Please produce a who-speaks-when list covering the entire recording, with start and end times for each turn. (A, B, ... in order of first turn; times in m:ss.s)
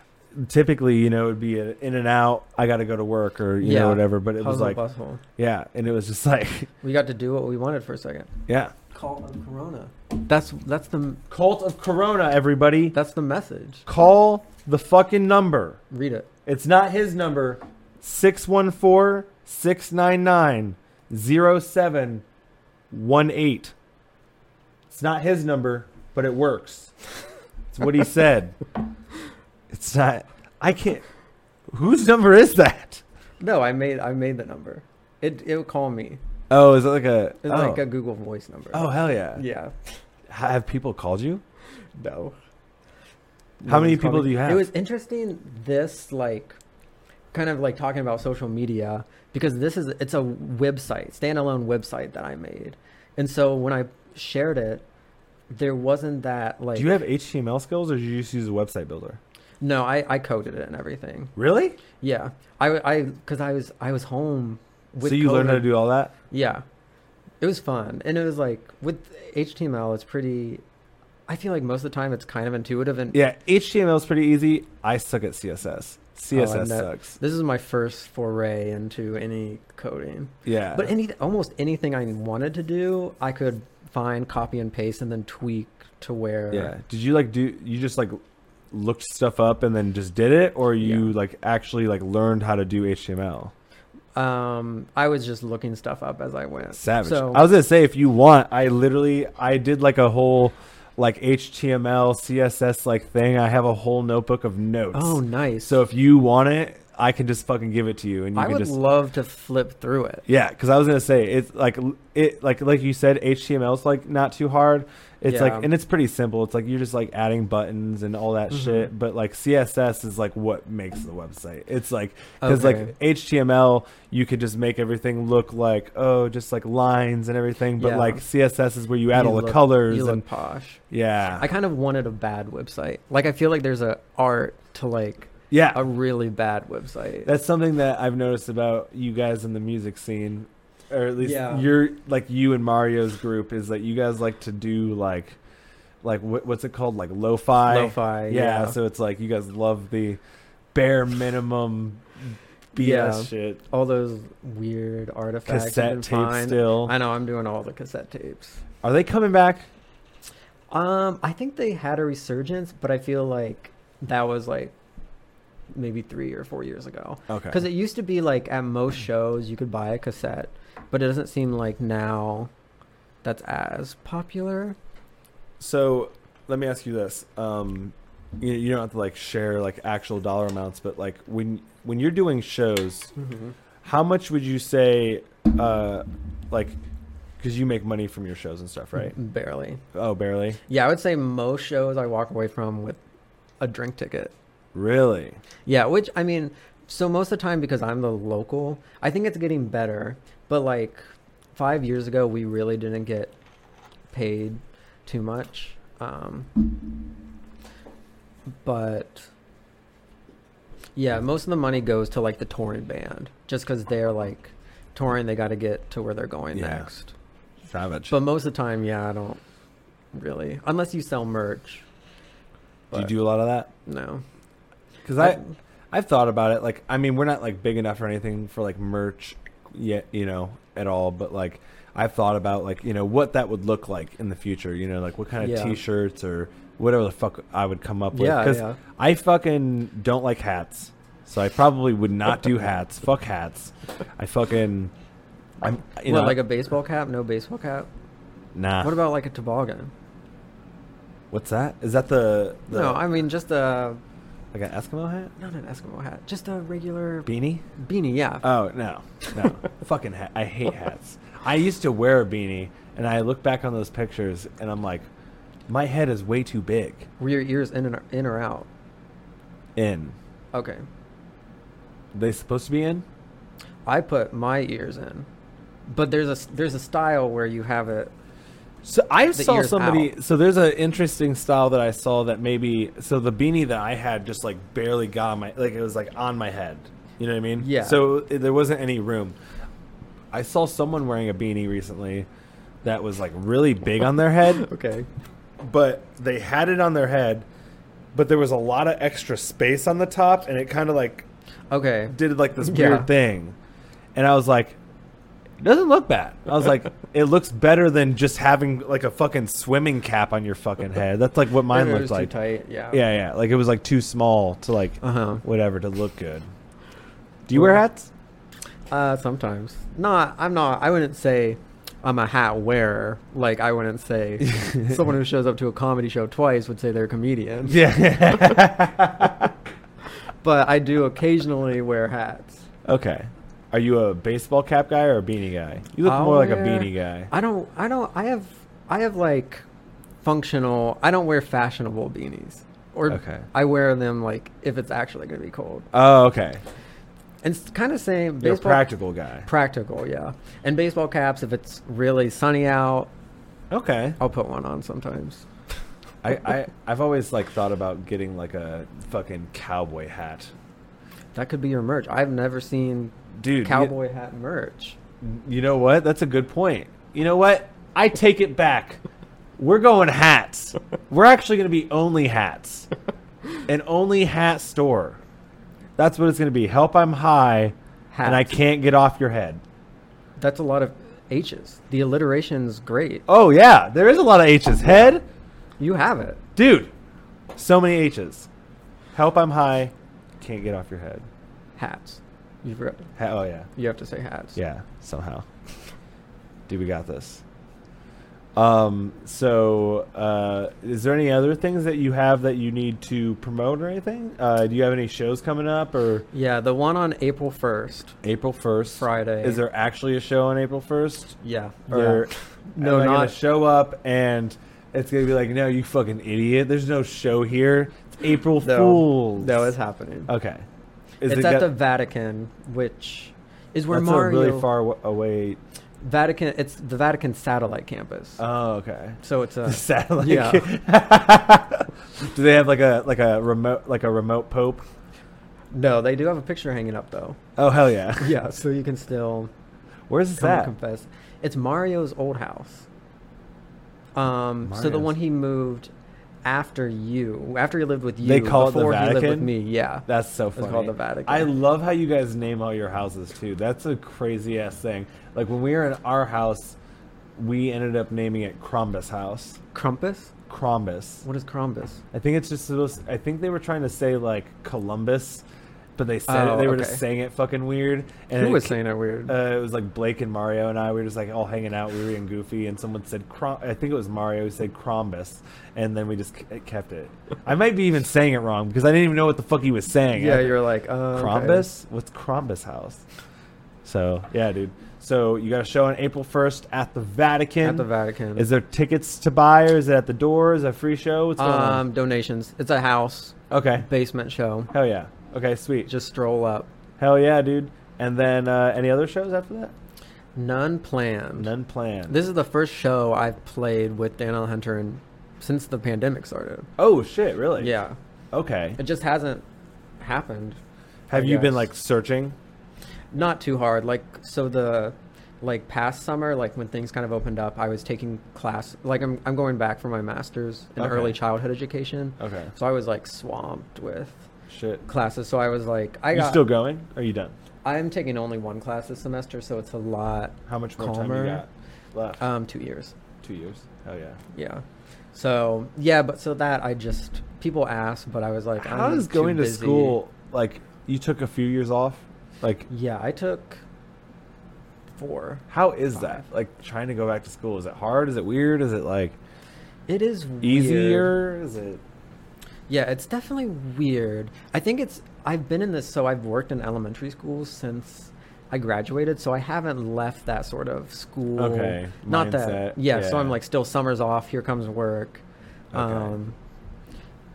0:00.3-0:04.8 A
0:03.6-0:05.2 B
0:05.4-0:06.7 A
0:06.8-0:08.3 B
0:08.5-0:08.7 A
0:08.9-0:11.2 B
0:11.3-0:13.0 A
0:12.9-0:13.9 B
0:13.9-0:15.8 A
0:15.9-0:16.3 B
0:16.5-0:22.2 A
0:22.9-0:23.7 A
0:24.9-0:26.9 A
0:27.7-0:28.6 A
0:29.7-0:31.0 A
0:31.7-0:33.0 A
0:33.4-0:36.2 B
0:36.5-0:37.8 A
0:37.4-0:40.0 B
0:38.7-0:39.4 A
0:40.3-0:41.4 A
0:42.0-0:42.4 B
0:43.6-0:46.6 B
0:43.7-0:44.7 A
0:47.3-0:54.8 B
0:55.5-0:56.9 B
0:56.8-0:59.2 A
0:59.6-1:01.3 B
1:01.4-1:01.8 A
1:02.0-1:05.8 B
1:05.0-1:06.1 A
1:06.3-1:06.6 B
1:07.4-1:10.6 B
1:11.3-1:13.2 B
1:13.1-1:17.2 A
1:16.3-1:26.8 B
1:20.4-1:20.9 A
1:26.5-1:28.2 A
1:28.7-1:33.5 A
1:30.8-1:31.1 B
1:34.2-1:37.5 B
1:36.8-1:48.8 A
1:44.9-1:45.8 B
1:48.4-1:50.2 B
1:50.3-2:10.2 A
1:55.3-1:55.7 B
1:58.5-1:58.9 B
2:02.4-2:02.9 B
2:07.8-2:08.2 B
2:09.1-2:10.8 B
2:10.9-2:11.5 A
2:11.4-2:17.3 B
2:15.5-2:15.8 A
2:17.2-2:25.4 A
2:21.2-2:21.7 B
2:26.0-2:30.2 A
2:27.7-2:28.8 B
2:30.7-2:33.6 A
2:32.8-2:38.6 B
2:35.5-2:36.9 A
2:38.8-2:39.7 A
2:40.7-2:44.7 B
2:45.7-2:52.5 B
2:47.3-2:47.6 A
2:53.2-2:54.8 B
2:55.6-3:03.1 A
3:03.2-3:03.6 B
3:03.8-3:06.8 A
3:07.4-3:09.2 A
3:09.0-3:09.8 B
3:09.9-3:10.6 A
3:10.7-3:13.0 B
3:13.6-3:14.3 B
3:14.7-3:15.4 A
3:15.7-3:21.0 B
3:21.6-3:23.4 B
3:24.1-3:26.7 B
3:28.6-3:29.3 B
3:31.0-3:37.1 B
3:36.5-3:36.9 A
3:37.6-3:38.2 A
3:38.1-3:39.4 B
3:40.1-3:41.9 B
3:42.9-3:43.2 B
3:42.9-3:43.7 A
3:43.8-3:44.2 B
3:45.0-4:04.9 A
3:45.2-3:45.5 B
3:55.4-3:55.8 B
3:58.1-3:58.8 B
4:05.6-4:06.4 A
4:06.0-4:07.9 B
4:08.6-4:09.0 A
4:08.8-4:09.9 B
4:11.3-4:13.0 A
4:12.7-4:14.0 B
4:14.5-4:15.3 A
4:15.4-4:18.4 B
4:17.3-4:17.6 A
4:18.4-4:25.1 A
4:25.7-4:27.1 A
4:27.2-4:28.7 B
4:29.8-4:30.2 A
4:30.5-4:30.8 B
4:32.1-4:33.0 A
4:33.8-4:35.3 B
4:35.9-4:38.1 B
4:38.8-4:49.4 A
4:39.3-4:40.1 B
4:47.6-4:48.0 B
4:50.3-4:52.3 A
4:52.8-4:54.7 A
4:54.4-4:55.1 B
4:55.6-4:57.5 A
4:58.1-5:01.2 A
5:01.7-5:03.1 B
5:02.1-5:03.6 A
5:04.2-5:04.8 A
5:05.6-5:12.3 A
5:11.7-5:13.0 B
5:12.9-5:16.4 A
5:15.0-5:15.4 B
5:17.5-5:18.1 A
5:18.9-5:28.4 B
5:24.4-5:25.0 A
5:27.7-5:29.5 A
5:30.4-5:32.6 B
5:32.9-5:37.3 A
5:36.0-5:39.6 B
5:40.2-5:45.9 B
5:43.1-5:43.5 A
5:45.9-5:46.6 A
5:47.4-5:48.9 B
5:48.4-5:49.5 A
5:49.4-5:53.1 B
5:53.7-5:54.2 A
5:54.2-5:55.4 B
5:56.2-6:00.5 A
6:01.3-6:05.0 B
6:03.3-6:04.0 A
6:05.2-6:09.0 A
6:09.6-6:12.9 A
6:13.7-6:15.2 A
6:16.0-6:19.6 A
6:18.1-6:18.5 B
6:20.4-6:23.2 B
6:23.3-6:25.2 A
6:25.8-6:26.4 B
6:26.6-6:26.9 A
6:27.6-6:28.5 A
6:29.1-6:31.3 A
6:31.8-6:33.1 B
6:33.2-6:33.7 A
6:33.8-6:34.6 B
6:34.6-6:35.5 A
6:36.7-6:37.4 A
6:38.6-6:46.3 A
6:46.3-6:48.2 B
6:48.2-6:51.4 A
6:49.0-6:49.6 B
6:51.4-6:53.4 B
6:51.9-6:59.7 A
6:58.6-7:00.3 B
7:00.3-7:00.7 A
7:01.2-7:01.7 A
7:01.3-7:04.7 B
7:03.9-7:05.6 A
7:06.0-7:08.4 B
7:08.4-7:14.8 A
7:09.2-7:10.7 B
7:15.7-7:17.4 B
7:17.6-7:18.3 A
7:18.2-7:19.5 B
7:20.1-7:20.7 A
7:20.4-7:22.9 B
7:24.2-7:25.9 B
7:24.6-7:25.1 A
7:26.4-7:31.5 B
7:28.2-7:29.5 A
7:30.1-7:36.8 A
7:37.4-7:39.6 A
7:39.7-7:40.3 B
7:40.5-7:41.2 A
7:41.2-7:42.0 B
7:42.1-7:45.4 A
7:46.0-8:00.6 A
7:46.3-7:47.0 B
7:48.4-7:49.4 B
8:00.1-8:01.7 B
8:01.1-8:03.0 A
8:03.8-8:11.8 A
8:07.6-8:08.5 B
8:11.4-8:14.7 B
8:13.5-8:13.9 A
8:14.7-8:15.9 A
8:15.9-8:16.7 B
8:17.0-8:19.7 A
8:20.4-8:21.5 B
8:21.4-8:22.2 A
8:22.1-8:26.7 B
8:26.8-8:27.7 A
8:27.6-8:28.0 B
8:28.3-8:28.8 A
8:28.8-8:29.4 B
8:30.0-8:30.6 B
8:31.1-8:32.4 A
8:31.1-8:31.7 B
8:33.1-8:44.3 B
8:40.8-8:41.2 A
8:42.2-8:42.5 A
8:44.5-8:44.8 A
8:44.9-8:46.5 B
8:46.1-8:47.3 A
8:47.6-8:51.4 B
8:50.5-8:52.2 A
8:52.2-8:53.0 B
8:53.2-8:54.2 A
8:54.3-9:00.0 B
8:58.6-9:02.7 A
9:02.7-9:03.6 B
9:05.0-9:06.2 B
9:05.5-9:09.2 A
9:09.9-9:11.2 B
9:10.4-9:11.8 A
9:12.7-9:26.4 B
9:21.4-9:23.4 A
9:25.7-9:26.2 A